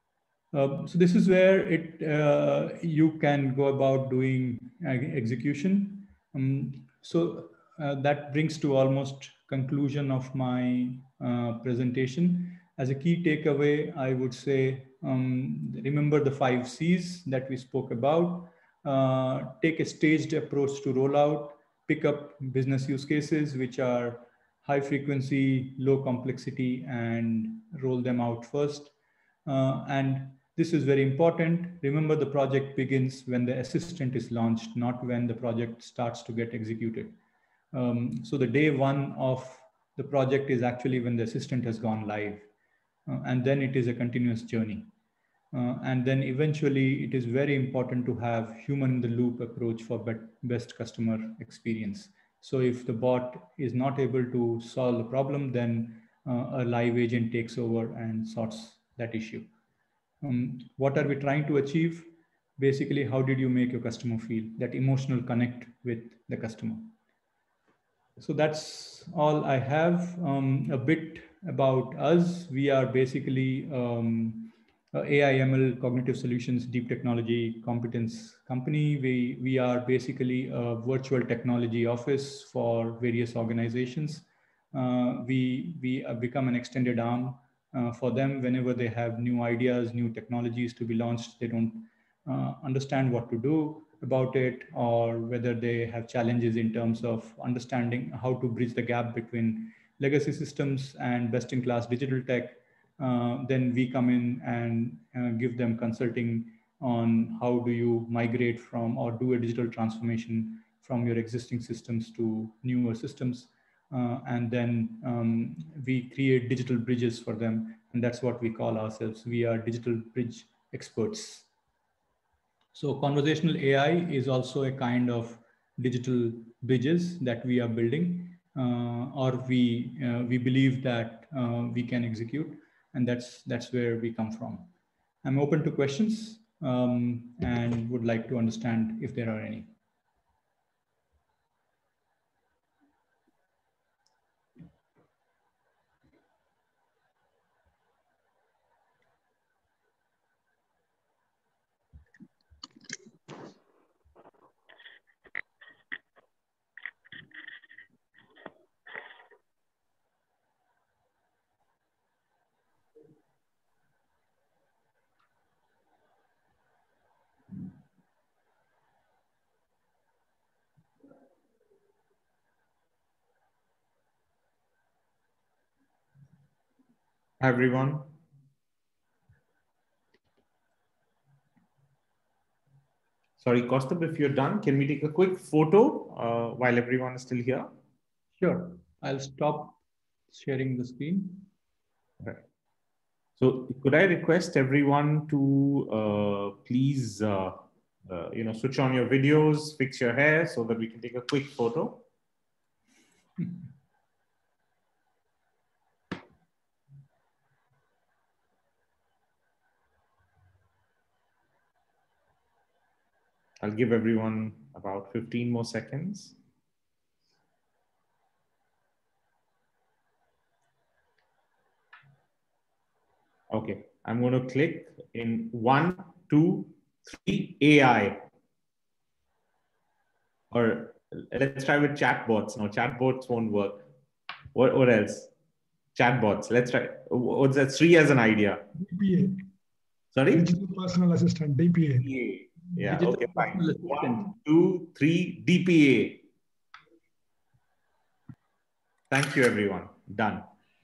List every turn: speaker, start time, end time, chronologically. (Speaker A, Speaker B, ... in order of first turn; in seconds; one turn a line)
Speaker A: 0.5-28.9
Speaker A: 29.4-37.2
Speaker A: 37.7-42.5
Speaker A: 43.0-44.9
Speaker A: 45.5-59.5
Speaker A: 60.2-66.9
Speaker A: 68.2-121.5
Speaker A: 122.7-134.7
Speaker A: 135.2-139.7
Speaker B: 177.4-178.1
Speaker B: 183.4-187.7
Speaker A: 188.4-189.8
Speaker A: 190.3-191.5
Speaker B: 193.4-202.0
Speaker B: 213.6-216.3
Speaker B: 223.5-228.2
Speaker B: 230.5-233.8
Speaker B: 234.5-235.3
Speaker B: 235.9-238.6
Speaker C: 238.7-239.4
Speaker B: 240.1-240.5
Speaker C: 240.3-242.1
Speaker B: 242.0-246.2
Speaker A: 242.9-244.3
Speaker B: 249.1-250.4